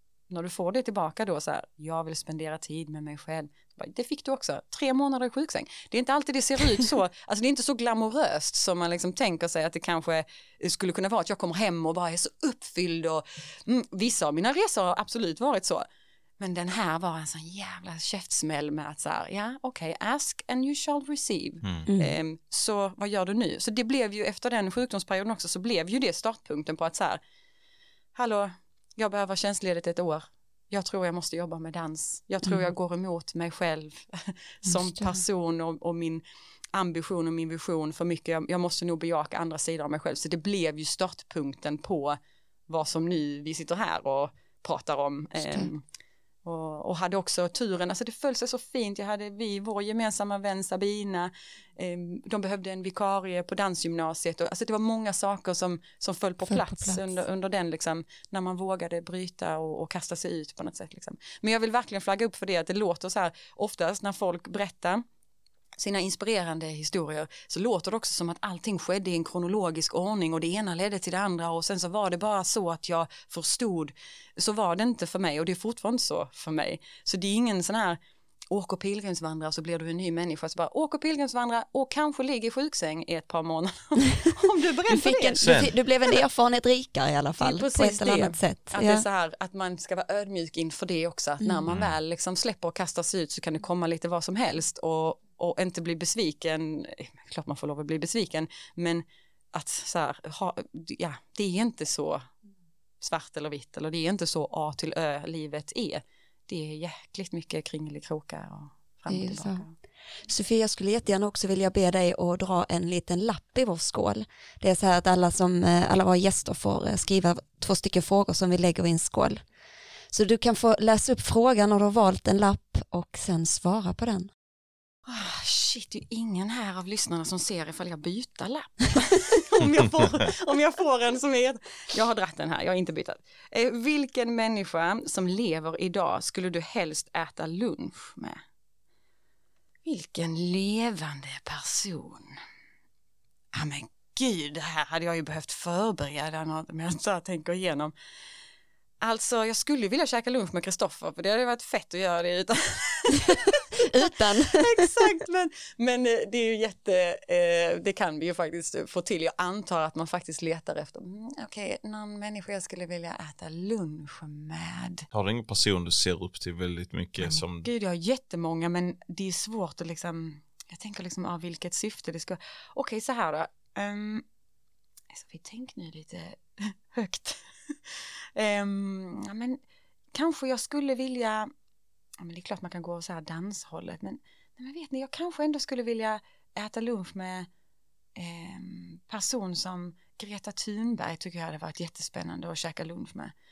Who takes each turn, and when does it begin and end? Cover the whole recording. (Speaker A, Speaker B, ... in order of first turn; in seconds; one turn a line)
Speaker A: 0.3-15.8
Speaker A: 16.4-27.2
Speaker B: 21.9-22.1
Speaker A: 28.1-45.8
Speaker B: 34.7-35.2
Speaker B: 45.4-45.7
Speaker A: 46.4-65.0
Speaker B: 56.4-57.2
Speaker A: 65.8-78.0
Speaker A: 78.5-86.1
Speaker B: 84.9-89.0
Speaker C: 85.4-85.7
Speaker A: 87.4-102.3
Speaker B: 91.4-91.7
Speaker A: 103.0-109.7
Speaker B: 109.1-109.6
Speaker B: 110.2-119.4
Speaker B: 120.1-124.3
Speaker A: 125.0-138.4
Speaker A: 139.8-142.4
Speaker A: 143.5-147.9
Speaker A: 149.0-165.1
Speaker B: 153.8-154.8
Speaker C: 165.1-167.7
Speaker A: 167.2-174.2
Speaker A: 175.1-179.6
Speaker A: 180.1-181.5
Speaker A: 182.2-187.5
Speaker A: 188.2-193.3